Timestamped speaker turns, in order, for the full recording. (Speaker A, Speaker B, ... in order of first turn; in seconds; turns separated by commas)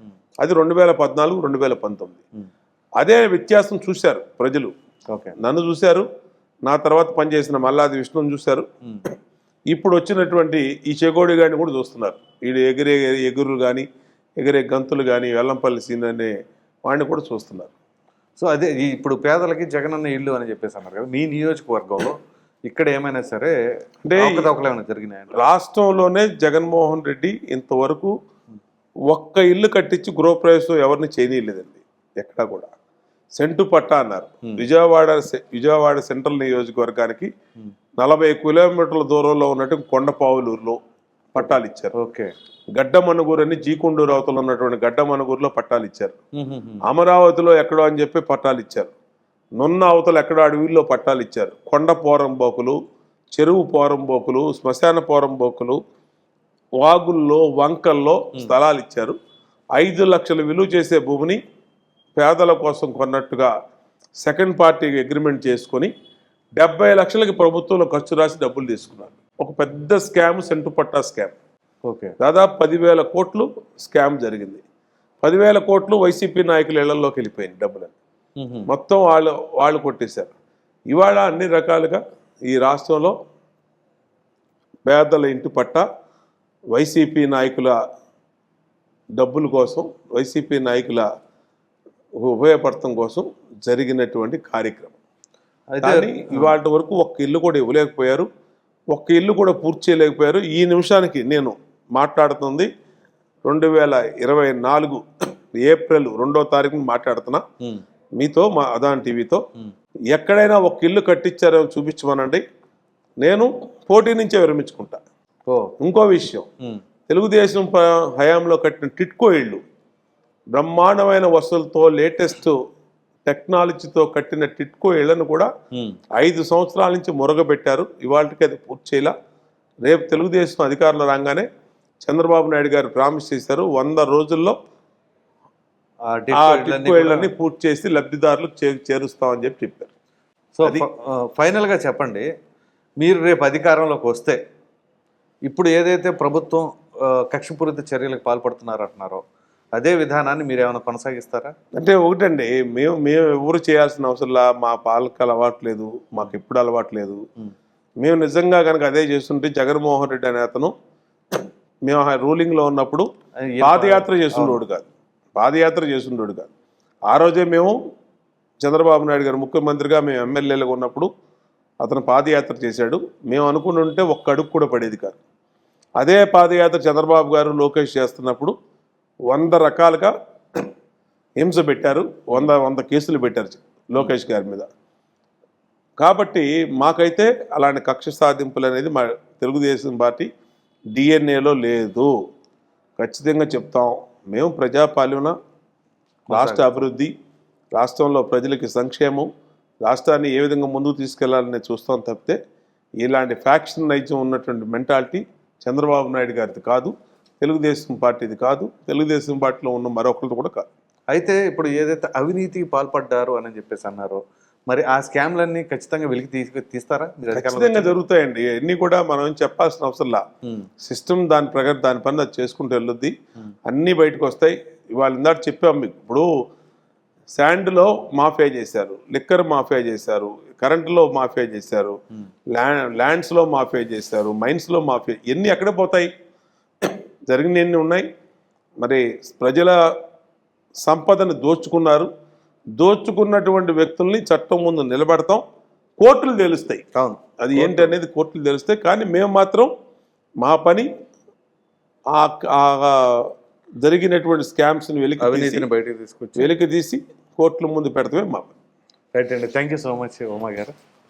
Speaker A: 0.4-2.2, Speaker A: 3.0-4.7, Speaker B: 5.1-5.3, Speaker A: 5.4-6.1, Speaker A: 6.7-8.7, Speaker A: 9.7-13.9, Speaker A: 14.4-16.3, Speaker A: 16.9-17.7, Speaker B: 18.4-23.6, Speaker A: 24.0-24.5, Speaker B: 24.1-25.4, Speaker A: 25.3-28.1, Speaker A: 29.1-32.7, Speaker A: 33.4-37.3, Speaker A: 38.0-40.8, Speaker A: 41.4-41.9, Speaker B: 41.4-42.3, Speaker A: 42.7-46.1, Speaker B: 46.4-46.8, Speaker A: 46.8-48.9, Speaker A: 49.6-52.8, Speaker A: 53.3-55.8, Speaker A: 56.8-59.1, Speaker A: 59.8-61.4, Speaker A: 62.1-63.5, Speaker A: 64.2-65.9, Speaker A: 66.6-71.3, Speaker B: 71.8-72.2, Speaker A: 72.2-74.6, Speaker A: 75.2-77.9, Speaker B: 78.4-78.7, Speaker A: 78.7-80.3, Speaker A: 80.9-83.2, Speaker A: 84.9-85.8, Speaker A: 86.7-87.8, Speaker A: 89.2-91.1, Speaker A: 92.2-94.9, Speaker B: 95.7-96.5, Speaker A: 95.8-98.3, Speaker A: 98.9-102.7, Speaker A: 103.4-107.4, Speaker A: 108.2-109.4, Speaker A: 110.1-112.4, Speaker A: 113.2-115.0, Speaker B: 115.5-115.7, Speaker A: 115.8-116.5, Speaker A: 117.1-119.6, Speaker A: 120.5-122.6, Speaker A: 123.2-125.5, Speaker A: 126.2-129.1, Speaker A: 129.8-131.5, Speaker A: 132.0-134.6, Speaker B: 136.1-137.3, Speaker A: 136.3-139.9, Speaker B: 140.6-142.3, Speaker B: 143.0-144.4, Speaker B: 145.4-151.5, Speaker A: 151.7-157.2, Speaker A: 158.0-160.7, Speaker A: 161.3-163.1, Speaker B: 163.4-164.6, Speaker A: 163.6-166.5, Speaker A: 167.1-167.8, Speaker A: 168.6-171.1, Speaker A: 171.8-175.2, Speaker A: 176.0-178.5, Speaker A: 179.3-180.7, Speaker A: 181.4-184.7, Speaker A: 186.0-190.3, Speaker A: 190.9-192.1, Speaker A: 193.0-195.3, Speaker B: 196.3-196.9, Speaker A: 196.3-197.1, Speaker A: 197.7-199.3, Speaker A: 199.8-202.4, Speaker A: 203.0-210.7, Speaker B: 211.1-218.0, Speaker A: 217.3-220.2, Speaker A: 220.8-223.1, Speaker A: 223.7-226.3, Speaker A: 227.3-232.0, Speaker A: 232.5-236.1, Speaker A: 236.8-238.1, Speaker A: 238.8-239.8, Speaker A: 240.8-242.1, Speaker A: 242.8-245.4, Speaker A: 246.0-246.8, Speaker B: 246.9-247.9, Speaker A: 247.4-249.7, Speaker A: 250.4-250.9, Speaker A: 252.1-255.7, Speaker B: 255.2-256.5, Speaker A: 256.4-258.5, Speaker B: 259.1-260.7